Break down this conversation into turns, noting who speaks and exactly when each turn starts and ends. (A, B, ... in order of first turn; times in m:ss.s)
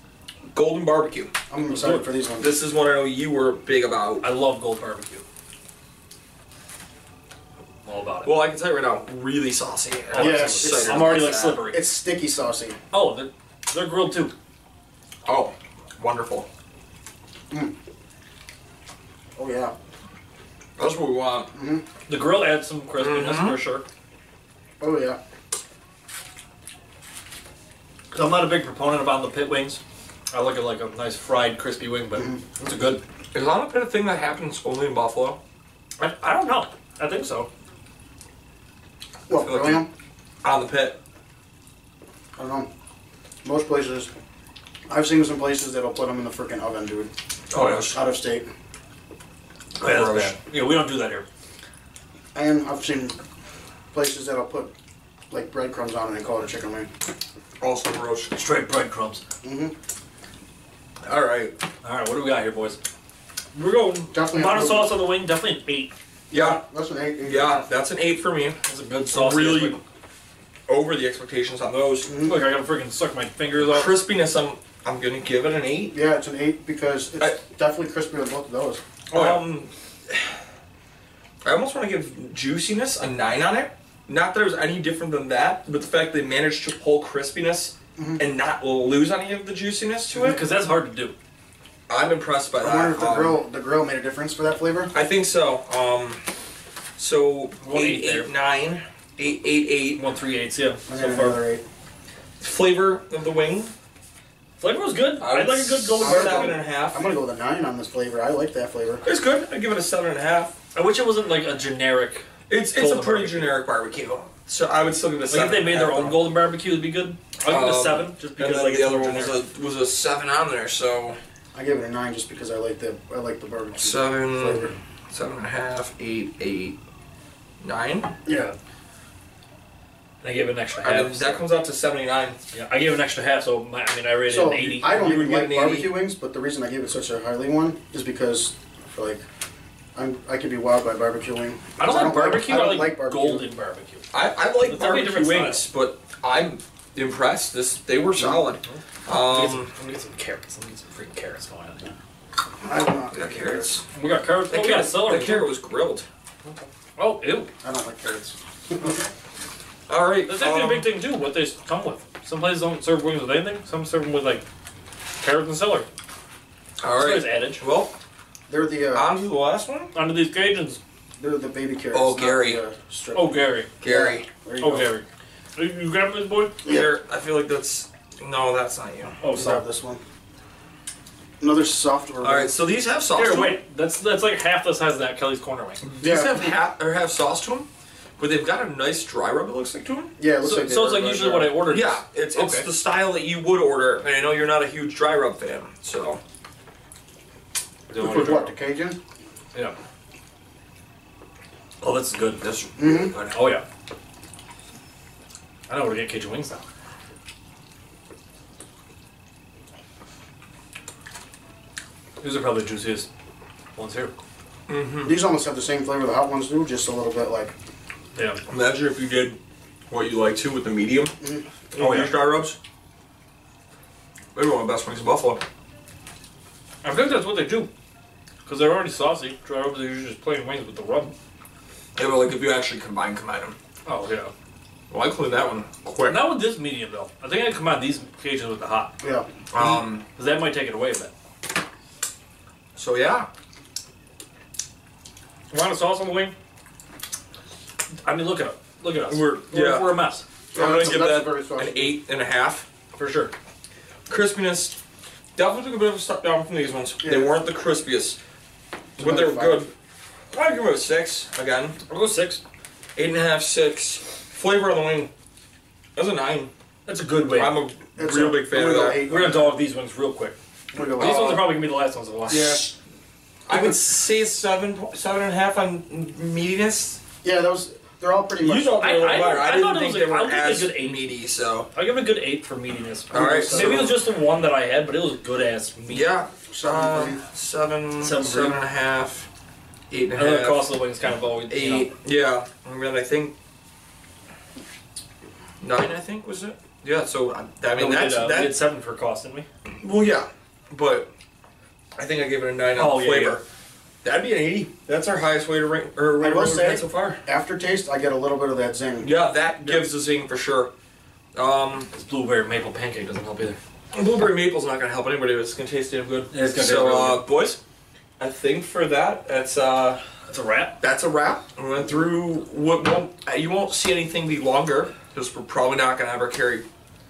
0:00.5-0:01.3 A
0:01.5-0:02.6 B
0:01.7-0:02.0 C
0:02.4-0:04.2 A
0:04.2-0:05.2 C
0:07.8-0:08.4 C
0:08.2-0:11.6 A
0:10.1-0:11.9 C
0:10.1-0:12.8 B
0:12.9-0:14.3 C
0:15.2-0:16.5 A
0:19.4-0:19.7 B
0:20.8-0:21.5 A
0:21.5-0:21.8 B
0:22.1-0:23.8 C
0:22.9-0:23.6 A
0:24.8-0:25.2 B
0:28.1-0:33.0 C
0:32.2-0:32.4 B
0:33.3-0:35.4 A
0:36.0-0:37.5 C
0:39.3-0:39.9 B
0:39.3-0:39.8 A
0:40.4-0:41.0 A
0:42.4-0:42.7 B
0:43.4-0:44.1 B
0:44.9-0:47.1 B
0:47.5-0:48.0 A
0:47.5-0:47.9 C
0:47.9-0:48.5 B
0:49.8-0:50.4 A
0:49.8-0:51.2 C
0:52.3-0:53.2 B
0:53.9-0:54.7 B
0:55.3-0:56.9 B
0:57.6-0:58.3 A
0:58.3-0:59.2 C
0:59.4-0:59.7 B
1:01.0-1:01.5 A
1:01.8-1:02.8 C
1:03.5-1:05.9 C
1:04.1-1:04.9 B
1:06.3-1:07.6 B
1:06.3-1:06.6 A
1:07.2-1:08.6 A
1:08.6-1:09.8 C
1:09.1-1:09.8 A
1:10.7-1:12.1 A
1:12.0-1:12.5 B
1:12.2-1:14.0 C
1:13.6-1:16.0 A
1:15.9-1:18.8 B
1:19.1-1:19.4 C
1:19.1-1:20.4 A
1:21.4-1:30.4 A
1:28.0-1:28.2 B
1:30.1-1:31.1 C
1:31.9-1:33.4 A
1:32.6-1:34.9 B
1:34.9-1:36.2 A
1:37.0-1:40.0 A
1:37.6-1:38.3 C
1:39.9-1:41.4 C
1:40.9-1:41.6 B
1:42.4-1:43.7 A
1:44.6-1:46.5 C
1:45.2-1:47.1 A
1:46.0-1:49.0 B
1:49.0-1:50.5 A
1:50.7-1:53.6 C
1:52.5-1:56.3 A
1:55.3-1:59.4 C
1:57.4-2:01.2 A
2:01.5-2:04.8 B
2:03.8-2:06.8 A
2:07.6-2:08.2 A
2:08.2-2:08.5 B
2:08.3-2:08.5 C
2:10.2-2:11.4 C
2:10.8-2:12.4 A
2:12.5-2:14.9 C
2:14.3-2:19.2 B
2:14.9-2:16.0 A
2:19.9-2:23.5 B
2:21.8-2:24.0 C
2:24.1-2:29.7 A
2:24.6-2:25.6 C
2:28.2-2:28.4 B
2:28.6-2:31.9 C
2:32.6-2:33.7 B
2:33.1-2:33.8 A
2:33.9-2:35.5 C
2:34.5-2:36.1 A
2:36.4-2:37.5 C
2:37.6-2:39.0 B
2:39.9-2:40.9 A
2:40.3-2:44.4 C
2:45.2-2:45.9 C
2:46.8-2:47.9 A
2:46.9-2:47.6 C
2:48.5-2:49.1 B
2:48.9-2:49.9 A
2:49.9-2:50.8 C
2:51.2-2:55.0 B
2:51.9-2:52.6 A
2:53.1-2:53.7 C
2:53.8-2:54.3 A
2:54.6-2:56.6 C
2:56.6-2:56.9 B
2:56.6-2:59.2 A
2:59.2-2:59.6 C
2:59.3-3:00.0 B
3:01.4-3:02.6 B
3:02.2-3:03.6 A
3:03.1-3:05.8 C
3:05.8-3:10.1 A
3:06.0-3:06.6 B
3:10.2-3:11.6 B
3:10.4-3:12.7 C
3:11.6-3:16.2 A
3:17.9-3:18.5 C
3:18.0-3:19.0 B
3:21.8-3:22.5 C
3:22.4-3:23.3 A
3:22.8-3:23.1 B
3:23.1-3:23.6 C
3:25.7-3:26.6 C
3:32.2-3:33.1 C
3:33.7-3:34.1 C
3:34.7-3:35.2 A
3:35.0-3:37.5 B
3:38.1-3:38.4 C
3:38.5-3:39.4 A
3:39.9-3:41.2 A
3:41.2-3:41.4 B
3:41.7-3:42.6 A
3:41.8-3:42.2 C
3:44.3-3:45.4 A
3:46.8-3:47.7 C
3:48.4-3:51.1 C
3:52.0-3:53.6 A
3:53.8-3:54.3 C
3:54.9-3:56.3 A
3:56.0-3:59.0 C
3:59.0-3:59.3 B
3:59.5-4:00.0 A
3:59.5-4:01.1 C
4:02.8-4:03.3 A
4:05.5-4:06.3 C
4:08.0-4:10.2 C
4:09.1-4:10.0 A
4:10.5-4:12.0 B
4:10.5-4:12.7 A
4:12.9-4:13.3 C
4:14.1-4:14.8 A
4:15.4-4:18.2 A
4:17.0-4:17.3 B
4:19.0-4:19.7 A
4:19.0-4:19.7 B
4:20.3-4:21.8 A
4:21.8-4:22.4 C
4:23.0-4:25.1 A
4:26.0-4:26.5 A
4:26.8-4:27.6 C
4:27.3-4:29.1 A
4:28.0-4:29.6 B
4:29.0-4:30.3 C
4:30.7-4:31.5 B
4:31.0-4:32.7 C
4:31.0-4:31.5 A
4:32.3-4:32.8 A
4:33.5-4:33.8 B
4:33.5-4:37.0 A
4:37.2-4:38.8 B
4:38.4-4:41.7 A
4:38.8-4:41.1 C
4:41.6-4:46.1 C
4:43.1-4:44.0 A
4:43.1-4:44.0 B
4:45.9-4:49.3 A
4:46.5-4:47.2 B
4:48.0-4:48.6 C
4:49.9-4:50.7 A
4:50.1-4:51.9 C
4:51.5-4:53.3 A
4:55.6-4:58.5 A
4:57.7-4:59.5 C
4:59.8-5:01.1 A
5:02.0-5:03.4 A
5:02.7-5:03.4 C
5:04.0-5:07.2 A
5:06.2-5:09.1 B
5:09.0-5:10.7 A
5:09.6-5:09.9 C
5:11.3-5:11.9 A
5:11.9-5:13.6 C
5:13.9-5:17.6 A
5:16.3-5:17.2 C
5:18.2-5:20.0 A
5:20.3-5:20.8 C
5:20.8-5:26.6 A